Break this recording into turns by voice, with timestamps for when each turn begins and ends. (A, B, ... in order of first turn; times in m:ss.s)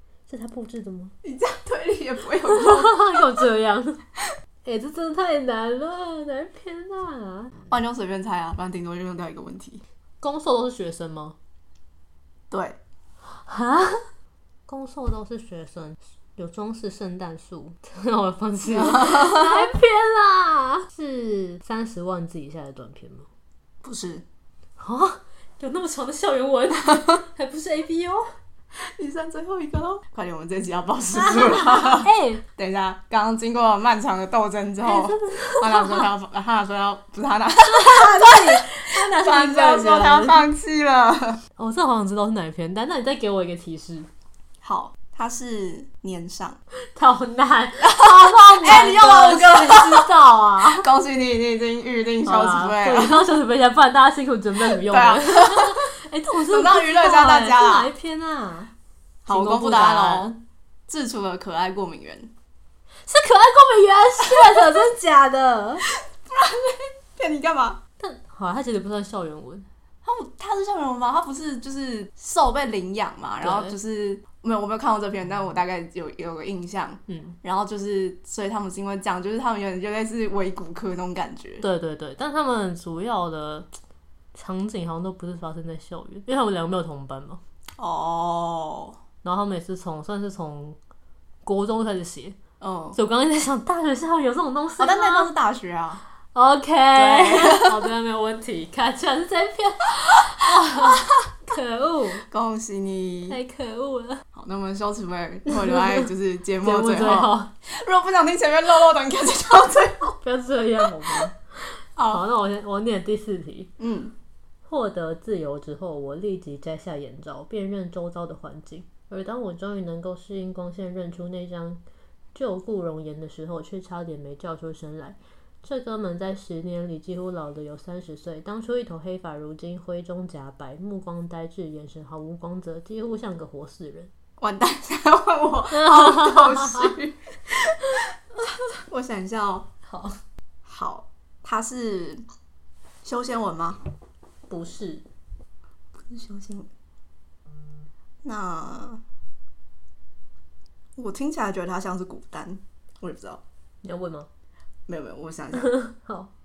0:00.3-0:01.1 A
0:01.2-0:03.4 B
0:02.5-0:04.0 A
0:04.6-0:07.6 A
0:07.7-0:09.8 B
0:10.2-0:11.4 A
0:12.5-0:12.8 B
0:13.4-0:14.1 A
0:14.7-0:23.3 A
0:18.8-0:19.3 B
0:23.8-0:24.2 B
0:24.8-0:28.3 A
0:28.8-0:41.4 B
0:31.1-0:32.4 A
0:34.8-0:36.0 A
0:37.6-0:40.4 A
0:41.6-0:44.1 A
0:44.6-0:46.6 B
0:46.9-0:50.9 A
0:47.8-0:50.1 B
0:50.6-0:53.2 B
0:52.2-0:58.7 A
0:54.7-0:55.8 B
0:56.5-0:57.9 B
0:59.2-1:00.3 B
0:59.3-1:00.4 A
1:00.9-1:02.3 B
1:03.0-1:05.9 A
1:04.3-1:04.6 B
1:05.9-1:07.8 B
1:08.0-1:09.6 A
1:10.0-1:21.6 B
1:13.4-1:13.8 A
1:17.1-1:17.4 A
1:21.6-1:23.7 A
1:24.3-1:27.4 A
1:27.8-1:29.0 B
1:29.2-1:30.8 A
1:31.4-1:32.4 A
1:32.6-1:33.0 B
1:32.9-1:35.3 A
1:34.8-1:36.0 B
1:36.3-1:42.2 A
1:36.9-1:37.9 B
1:40.7-1:41.2 B
1:42.3-1:43.4 B
1:43.3-1:44.2 A
1:44.3-1:50.0 B
1:45.5-1:46.1 A
1:46.6-1:47.5 A
1:50.1-1:51.4 A
1:52.0-1:52.2 B
1:52.1-1:53.7 A
1:53.8-1:54.1 B
1:54.6-2:01.8 A
2:02.3-2:14.1 A
2:14.4-2:19.7 B
2:15.7-2:16.9 A
2:19.8-2:20.2 A
2:20.6-2:22.2 B
2:23.0-2:23.8 B
2:24.5-2:25.0 A
2:26.0-2:26.7 B
2:28.2-2:29.0 B
2:31.0-2:33.4 B
2:33.8-2:34.3 A
2:34.9-2:35.7 B
2:35.6-2:36.3 A